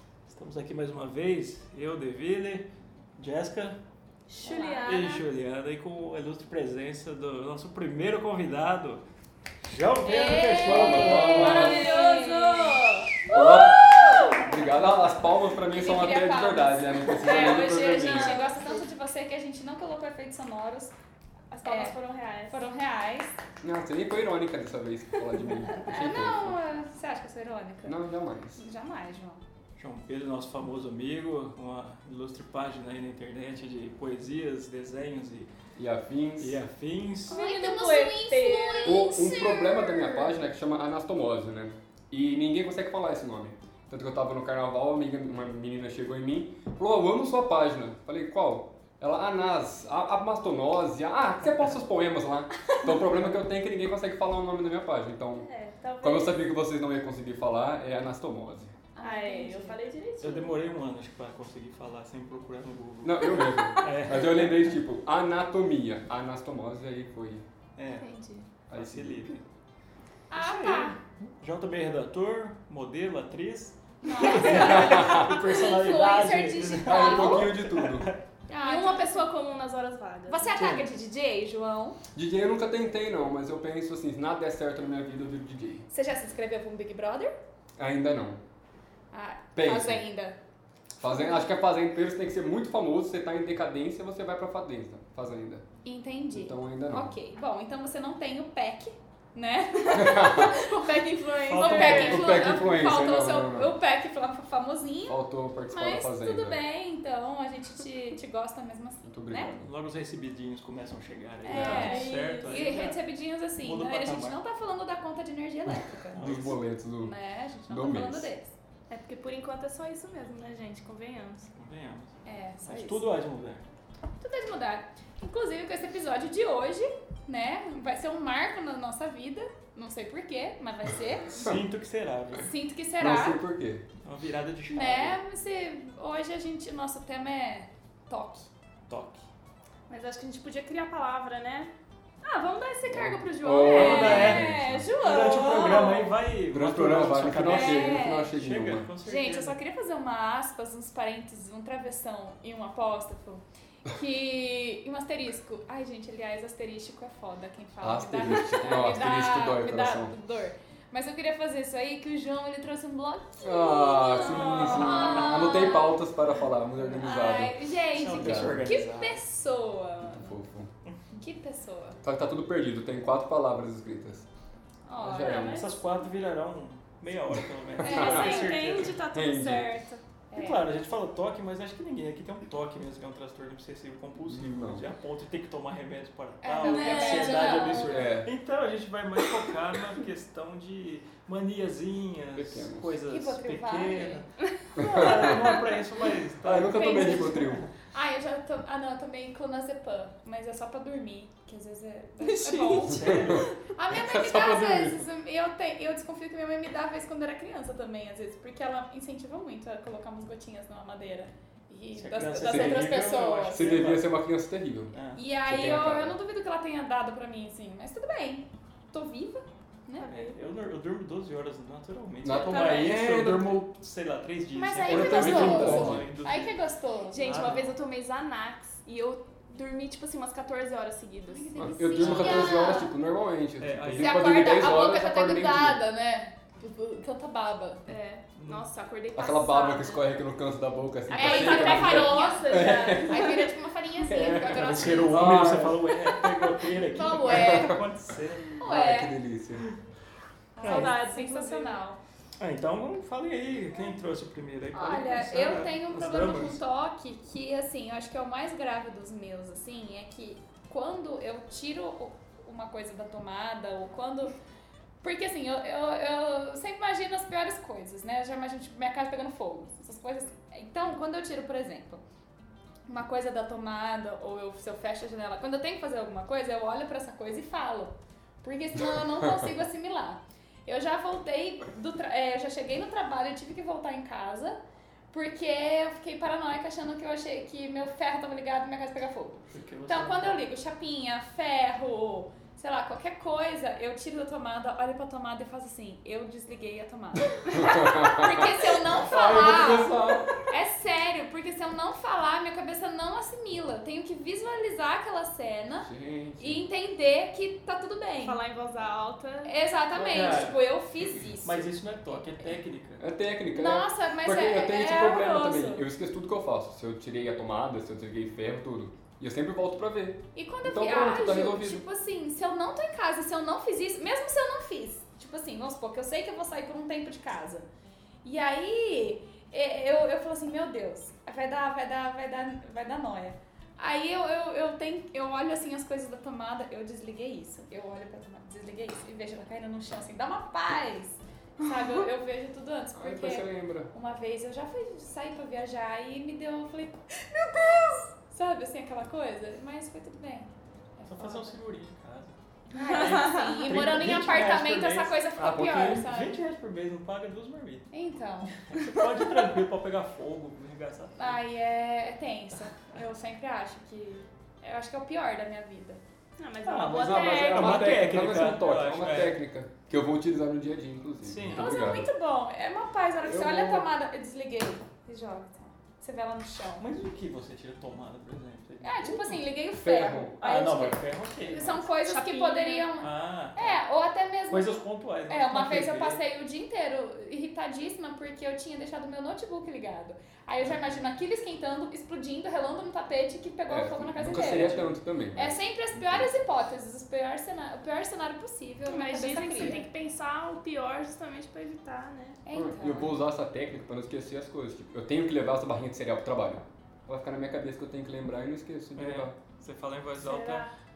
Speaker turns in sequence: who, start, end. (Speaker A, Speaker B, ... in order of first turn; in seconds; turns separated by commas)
Speaker A: 0.3-3.8, Speaker B: 4.3-5.2, Speaker C: 4.4-5.0, Speaker A: 4.8-9.0, Speaker A: 9.6-11.7, Speaker C: 10.0-14.5, Speaker D: 10.6-11.9, Speaker B: 11.1-14.4, Speaker D: 13.3-18.4, Speaker C: 15.6-20.9, Speaker B: 17.2-18.8, Speaker C: 21.5-23.3, Speaker B: 21.5-22.6, Speaker D: 23.6-26.6, Speaker C: 25.9-28.0, Speaker D: 27.8-28.6, Speaker C: 28.6-29.4, Speaker A: 29.8-35.5, Speaker D: 35.8-36.6, Speaker A: 36.4-37.4, Speaker B: 37.3-39.2, Speaker C: 37.3-40.3, Speaker D: 38.8-55.5, Speaker B: 55.4-56.4, Speaker D: 56.0-58.7, Speaker C: 58.9-59.8, Speaker B: 59.0-60.6, Speaker A: 60.2-64.7, Speaker D: 63.0-67.5, Speaker A: 67.8-68.0, Speaker B: 68.0-68.5, Speaker D: 68.7-69.2, Speaker A: 68.7-69.5, Speaker C: 70.3-71.0, Speaker A: 70.4-78.2, Speaker C: 74.0-77.6, Speaker D: 74.5-75.3, Speaker D: 76.8-78.1, Speaker C: 78.5-79.2, Speaker B: 78.6-80.5, Speaker C: 80.3-82.0, Speaker A: 80.5-80.9, Speaker D: 82.1-85.8, Speaker C: 85.9-87.3, Speaker D: 87.8-88.4, Speaker C: 89.1-90.4, Speaker D: 89.5-90.0, Speaker D: 91.0-95.6, Speaker C: 91.0-91.3, Speaker C: 95.8-109.5, Speaker D: 96.3-97.1, Speaker D: 99.9-100.6, Speaker A: 101.5-102.4, Speaker D: 101.5-103.7, Speaker B: 101.5-102.4, Speaker D: 105.1-106.6, Speaker D: 109.0-109.7, Speaker A: 109.6-113.0, Speaker C: 111.4-116.4, Speaker D: 111.5-112.0, Speaker B: 111.5-112.7, Speaker A: 113.6-114.4, Speaker A: 116.1-116.6, Speaker D: 116.2-117.1, Speaker C: 117.0-118.5, Speaker D: 117.7-118.3, Speaker B: 118.9-121.5, Speaker A: 121.5-123.6, Speaker C: 122.2-123.0, Speaker C: 124.2-131.4, Speaker A: 131.3-132.5, Speaker C: 132.4-133.4, Speaker D: 133.0-133.8, Speaker A: 134.0-135.2, Speaker C: 134.7-138.5, Speaker A: 138.9-139.2, Speaker B: 139.9-141.7, Speaker B: 142.2-144.3, Speaker D: 142.8-144.9, Speaker C: 143.6-146.1, Speaker A: 143.7-144.5, Speaker A: 145.0-149.6, Speaker B: 145.1-146.0, Speaker D: 146.5-148.9, Speaker C: 147.5-148.3, Speaker C: 149.0-166.0, Speaker D: 157.8-160.1, Speaker D: 163.4-168.7, Speaker B: 164.0-165.5, Speaker C: 166.9-170.3, Speaker A: 167.9-169.2, Speaker D: 170.0-170.7, Speaker C: 171.1-172.0, Speaker D: 172.0-174.3, Speaker C: 174.8-175.6, Speaker D: 175.0-175.7, Speaker B: 175.2-175.6, Speaker A: 175.4-179.0, Speaker D: 177.8-179.7, Speaker C: 177.8-178.5, Speaker B: 177.8-180.0, Speaker C: 180.3-180.6, Speaker A: 180.3-197.7, Speaker D: 184.3-184.8, Speaker C: 186.4-188.1, Speaker B: 186.6-187.8, Speaker D: 187.7-188.3, Speaker D: 192.3-193.0, Speaker C: 193.1-194.2, Speaker D: 194.8-195.6, Speaker D: 196.4-197.7, Speaker C: 196.6-213.9, Speaker B: 202.2-202.9, Speaker A: 202.5-203.5, Speaker D: 203.0-205.1, Speaker A: 211.9-214.1, Speaker D: 212.2-212.9, Speaker D: 213.5-214.9, Speaker A: 214.9-215.2, Speaker C: 215.1-220.1, Speaker D: 215.4-216.1, Speaker B: 220.0-220.4, Speaker A: 220.1-226.5, Speaker D: 222.2-223.6, Speaker B: 224.6-225.8, Speaker C: 224.6-227.4, Speaker D: 224.8-226.1, Speaker B: 227.1-231.5, Speaker A: 227.2-227.7, Speaker C: 231.3-232.9, Speaker D: 231.6-235.8, Speaker A: 231.9-232.6, Speaker A: 233.6-234.4, Speaker C: 233.9-237.9, Speaker B: 237.9-240.1, Speaker A: 238.4-238.7, Speaker D: 239.1-243.3, Speaker B: 241.1-243.5, Speaker C: 241.1-245.7, Speaker A: 244.1-248.5, Speaker D: 244.8-245.9, Speaker C: 246.6-247.8, Speaker D: 247.2-247.9, Speaker C: 248.6-249.2, Speaker D: 248.6-249.7, Speaker C: 250.5-252.0, Speaker A: 250.6-250.9, Speaker B: 250.6-251.8, Speaker A: 252.4-256.6, Speaker C: 254.7-264.3, Speaker C: 265.0-272.0, Speaker C: 272.9-284.6, Speaker C: 285.1-308.4, Speaker A: 289.5-290.4, Speaker D: 297.6-300.3, Speaker D: 305.8-306.6, Speaker B: 308.2-309.5, Speaker C: 309.4-311.7, Speaker A: 309.9-310.7, Speaker A: 311.4-313.1, Speaker D: 313.0-321.8, Speaker C: 313.5-315.8, Speaker C: 320.3-327.7, Speaker C: 328.2-351.6, Speaker B: 341.7-342.0, Speaker D: 342.9-343.9, Speaker A: 351.1-352.3, Speaker C: 352.7-356.4, Speaker B: 352.8-353.7, Speaker A: 352.9-357.9, Speaker C: 357.9-358.5, Speaker A: 358.6-361.4, Speaker C: 361.1-366.0, Speaker B: 366.4-368.0, Speaker A: 366.6-369.4, Speaker D: 366.9-372.1, Speaker A: 371.2-371.7, Speaker C: 371.5-376.8, Speaker D: 373.2-373.9, Speaker A: 376.8-379.5, Speaker C: 378.8-399.9, Speaker D: 379.7-380.3, Speaker A: 380.4-381.8, Speaker B: 382.0-382.9, Speaker A: 383.0-383.8, Speaker A: 384.5-386.2, Speaker D: 393.7-396.3, Speaker A: 394.2-394.9, Speaker B: 398.9-402.4, Speaker C: 402.4-403.1, Speaker D: 402.5-409.3, Speaker A: 408.9-410.6, Speaker B: 410.2-410.7